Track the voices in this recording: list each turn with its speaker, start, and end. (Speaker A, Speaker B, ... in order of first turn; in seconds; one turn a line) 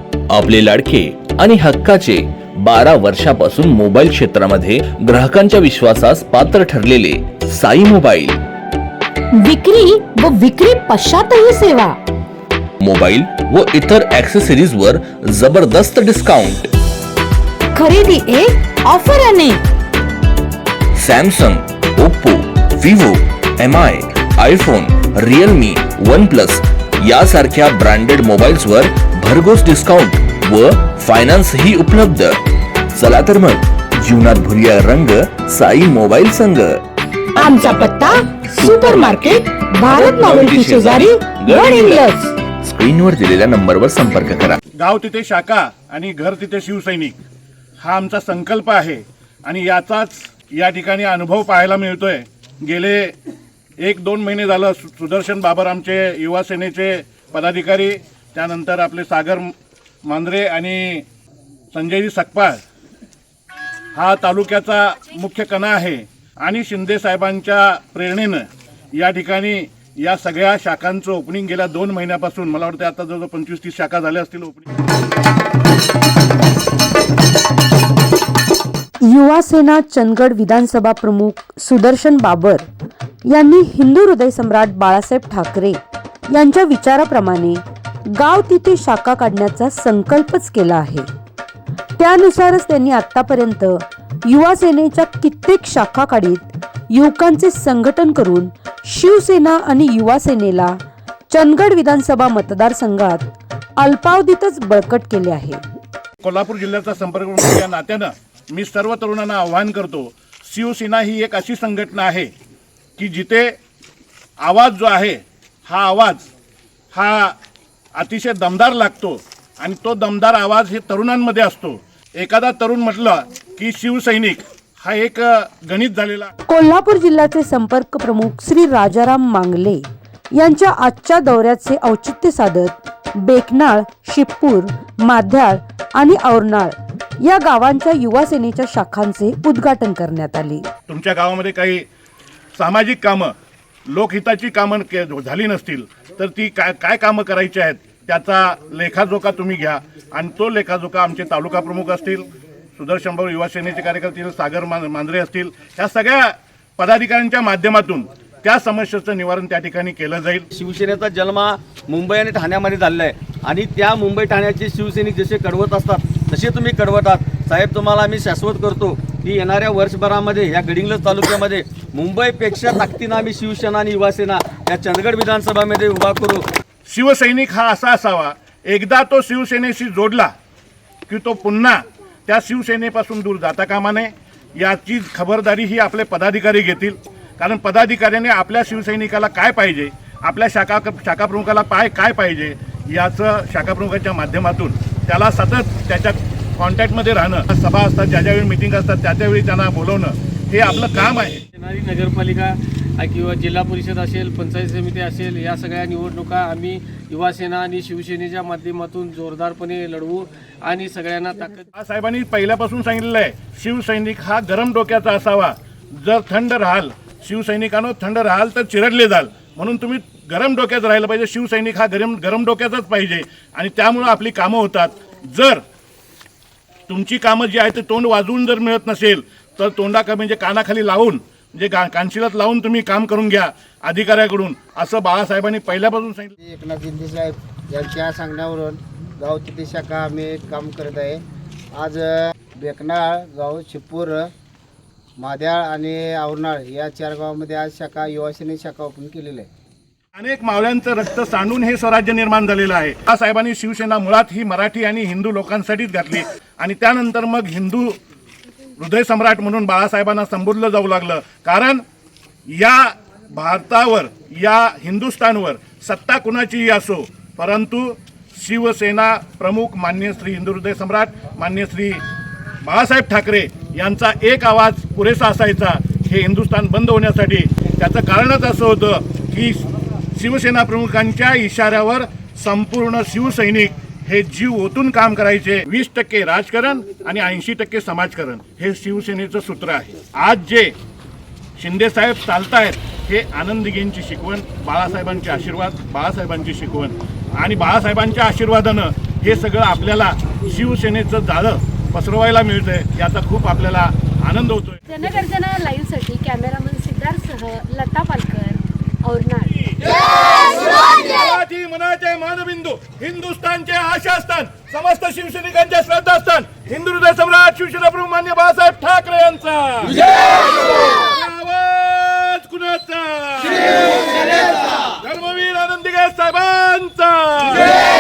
Speaker A: 0.3-8.4
Speaker B: 9.4-12.0
Speaker A: 12.8-16.6
Speaker B: 17.8-19.6
Speaker A: 21.0-32.4
Speaker A: 32.9-36.8
Speaker B: 37.4-42.4
Speaker A: 37.4-37.9
Speaker A: 38.4-42.1
Speaker A: 42.6-44.6
Speaker C: 44.8-47.2
Speaker C: 47.8-53.1
Speaker C: 53.8-59.5
Speaker C: 60.0-61.0
Speaker C: 61.7-62.6
Speaker C: 64.0-68.5
Speaker C: 69.0-74.7
Speaker D: 79.0-82.7
Speaker D: 83.3-85.8
Speaker D: 86.3-91.1
Speaker D: 92.0-100.8
Speaker D: 101.3-105.6
Speaker C: 106.2-112.3
Speaker C: 113.0-113.6
Speaker C: 114.4-116.3
Speaker C: 116.9-117.3
Speaker C: 118.0-126.3
Speaker D: 126.5-140.7
Speaker C: 140.9-141.8
Speaker C: 142.6-143.3
Speaker C: 143.9-160.5
Speaker E: 160.5-176.4
Speaker C: 176.9-180.3
Speaker C: 181.1-201.4
Speaker F: 201.6-211.7
Speaker C: 211.8-225.6
Speaker C: 226.9-236.3
Speaker G: 236.4-241.2
Speaker G: 241.7-244.3
Speaker G: 245.2-249.5
Speaker C: 250.2-257.9
Speaker C: 258.8-261.8
Speaker C: 262.5-272.0
Speaker C: 272.6-279.6
Speaker C: 280.1-290.7
Speaker C: 291.6-304.8
Speaker H: 304.9-311.1
Speaker C: 310.9-320.1
Speaker C: 320.9-324.0
Speaker C: 325.0-327.8